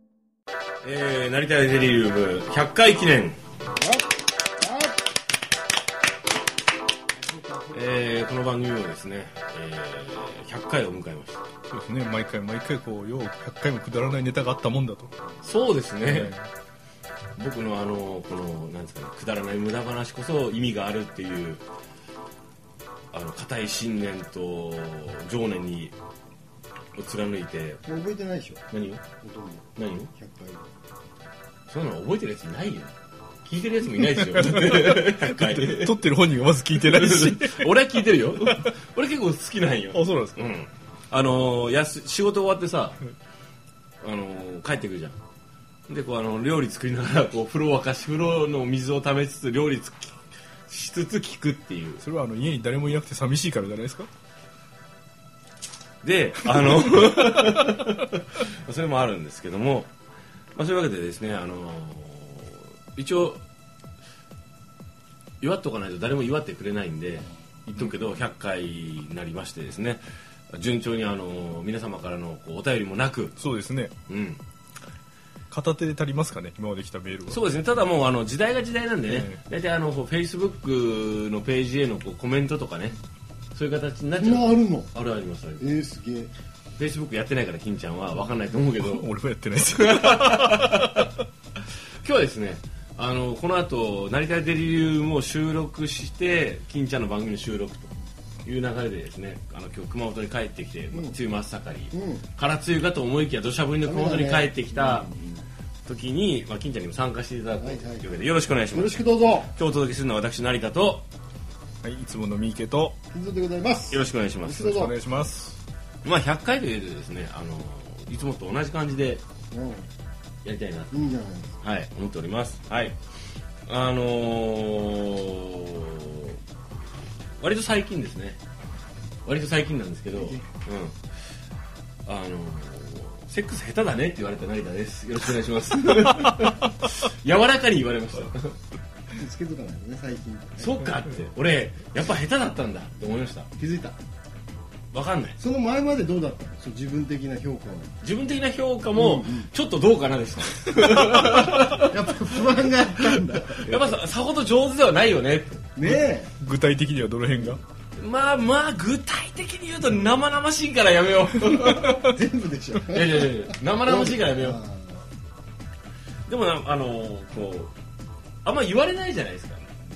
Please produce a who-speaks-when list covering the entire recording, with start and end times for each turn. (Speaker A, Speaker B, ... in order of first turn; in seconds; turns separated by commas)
Speaker A: 0.8-3.4, Speaker B: 3.8-5.0, Speaker B: 7.2-8.1, Speaker A: 7.7-11.4, Speaker C: 11.7-15.1, Speaker A: 15.4-16.3, Speaker C: 16.0-16.4, Speaker A: 17.4-21.6, Speaker A: 23.1-25.9, Speaker A: 26.9-27.8, Speaker B: 27.8-28.6, Speaker A: 28.7-29.0, Speaker B: 29.2-30.7, Speaker A: 29.8-30.1, Speaker A: 31.7-32.9, Speaker A: 33.4-36.0, Speaker C: 34.0-37.7, Speaker A: 36.8-43.0, Speaker C: 39.9-40.4, Speaker A: 44.0-45.2, Speaker A: 45.9-50.1, Speaker A: 50.7-52.0, Speaker C: 52.0-54.1, Speaker A: 56.0-59.9, Speaker C: 56.6-57.8, Speaker A: 60.5-63.4, Speaker A: 65.4-73.3, Speaker C: 67.8-68.1, Speaker C: 73.4-73.9, Speaker A: 74.1-74.4, Speaker C: 75.5-77.4, Speaker A: 77.3-83.0, Speaker C: 79.1-79.4, Speaker A: 83.5-85.7, Speaker B: 84.2-84.9, Speaker B: 85.6-86.3, Speaker A: 86.8-89.1, Speaker C: 88.8-91.1, Speaker A: 89.7-91.1, Speaker A: 92.0-97.9, Speaker A: 98.4-105.1, Speaker B: 101.9-102.2, Speaker B: 103.8-105.4, Speaker A: 105.8-111.0, Speaker B: 107.6-108.1, Speaker B: 108.7-109.5, Speaker C: 111.8-113.0, Speaker B: 113.1-115.0, Speaker A: 113.9-114.7, Speaker C: 114.5-115.6, Speaker A: 116.0-119.2, Speaker B: 119.5-119.9, Speaker A: 120.4-121.0, Speaker B: 120.9-121.6, Speaker A: 121.6-123.0, Speaker A: 123.7-126.4, Speaker A: 127.4-128.4, Speaker A: 129.2-131.0, Speaker B: 130.1-130.5, Speaker A: 132.1-138.6, Speaker B: 139.1-140.9, Speaker A: 140.6-143.5, Speaker B: 143.6-144.0, Speaker A: 144.9-145.4, Speaker B: 145.4-147.9, Speaker A: 148.0-152.0, Speaker B: 148.9-149.5, Speaker B: 151.2-153.9, Speaker A: 153.0-155.7, Speaker B: 155.8-156.3, Speaker C: 155.8-157.6, Speaker B: 157.3-157.6, Speaker A: 158.0-162.1, Speaker C: 161.5-162.1, Speaker B: 162.0-165.1, Speaker A: 162.9-164.6, Speaker A: 166.3-167.7, Speaker A: 168.4-169.7